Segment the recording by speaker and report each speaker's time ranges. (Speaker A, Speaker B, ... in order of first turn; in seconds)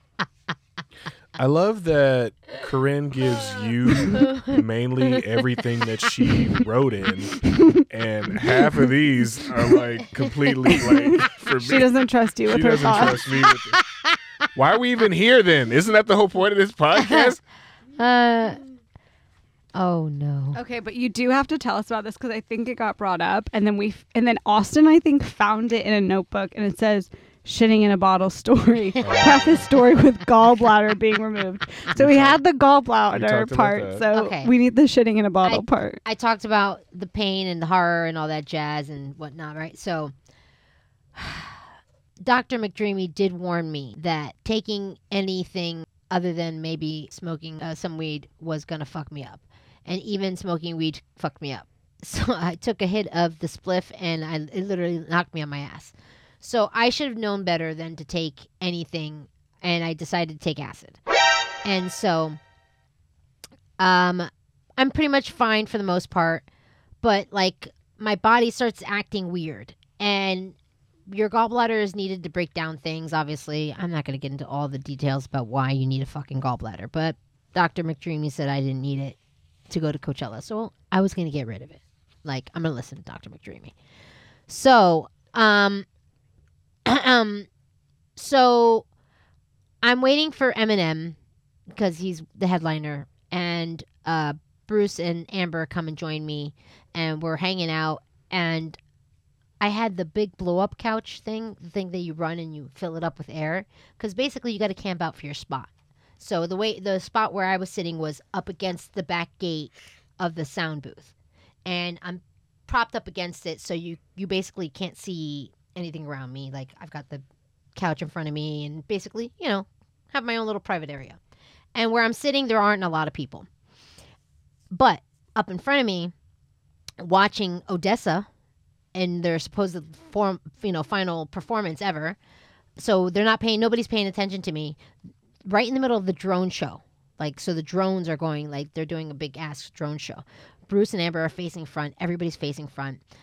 Speaker A: 1.4-11.9, 12.5-13.8, 14.5-17.4, 29.0-29.8, 31.9-32.4, 33.1-34.0
Speaker B: 10.9-13.2, 20.6-36.0
Speaker C: 17.0-17.3, 18.0-18.6, 19.8-20.6, 34.1-34.5, 35.4-40.1, 41.1-41.6, 42.2-61.0, 61.6-62.4, 63.8-66.5, 67.0-70.6, 71.1-79.2, 79.7-83.7, 84.5-85.9, 86.9-87.5, 88.2-88.9, 89.8-91.2, 91.7-98.8, 99.6-111.1, 111.7-117.2, 117.8-121.2, 121.8-123.5, 124.7-126.1, 127.0-128.3, 128.9-132.2, 132.8-134.8, 135.4-143.0